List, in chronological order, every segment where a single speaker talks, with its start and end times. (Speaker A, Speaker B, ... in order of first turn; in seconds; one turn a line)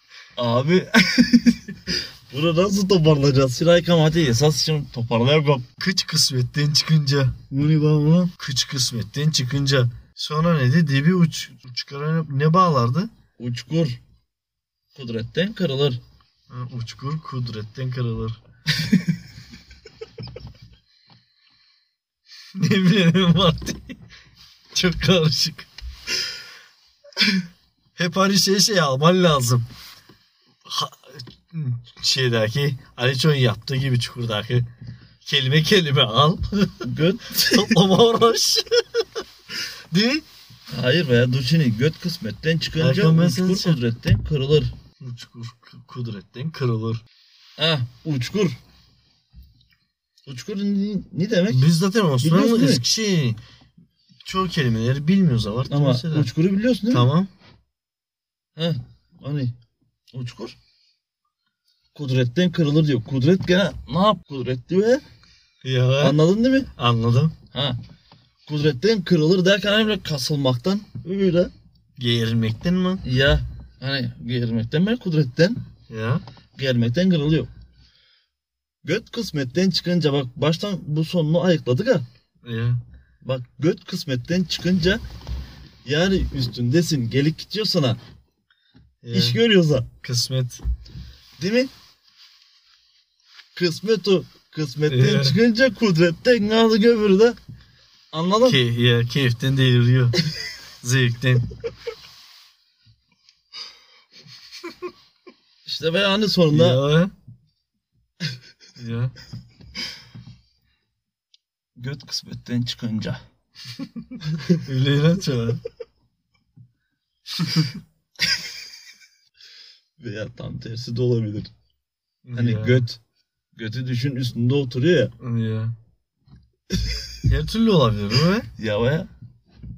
Speaker A: 0.4-5.7
Speaker B: 5.8-13.1
Speaker A: 13.4-14.0
Speaker A: 14.9-16.0
Speaker B: 16.5-18.4
Speaker B: 22.6-24.0
Speaker B: 24.7-25.7
Speaker B: 28.0-29.7
Speaker B: 30.7-34.7
Speaker B: 35.2-39.2
Speaker A: 36.8-37.8
Speaker B: 39.9-40.2
Speaker A: 40.7-44.7
Speaker B: 42.8-43.8
Speaker B: 45.0-47.0
Speaker A: 47.6-48.6
Speaker A: 50.3-51.7
Speaker B: 51.5-53.4
Speaker A: 52.2-52.8
Speaker B: 54.2-56.3
Speaker A: 55.7-57.1
Speaker B: 56.9-57.3
Speaker A: 58.5-59.5
Speaker A: 60.1-60.6
Speaker A: 61.9-65.0
Speaker B: 65.6-66.2
Speaker A: 66.0-66.7
Speaker B: 66.8-67.3
Speaker A: 67.5-67.8
Speaker A: 68.5-71.5
Speaker B: 72.0-73.0
Speaker A: 73.0-75.6
Speaker B: 75.9-76.2
Speaker A: 76.6-77.5
Speaker A: 78.8-82.1
Speaker B: 82.5-82.8
Speaker A: 83.2-85.0
Speaker A: 85.8-88.0
Speaker B: 89.0-89.4
Speaker A: 89.1-89.9
Speaker B: 90.0-90.6
Speaker A: 91.4-91.7
Speaker A: 93.5-97.4
Speaker B: 94.9-95.4
Speaker A: 98.1-98.6
Speaker B: 98.4-100.2
Speaker B: 100.8-101.5
Speaker A: 105.7-106.8
Speaker B: 106.5-107.1
Speaker B: 108.8-109.2
Speaker A: 111.8-113.2
Speaker B: 113.8-115.7
Speaker B: 117.4-117.7
Speaker A: 120.0-121.5
Speaker B: 122.2-122.8
Speaker A: 122.3-123.0
Speaker A: 123.5-125.1
Speaker B: 125.2-125.7
Speaker A: 126.7-127.0
Speaker B: 127.3-128.5
Speaker A: 128.6-129.1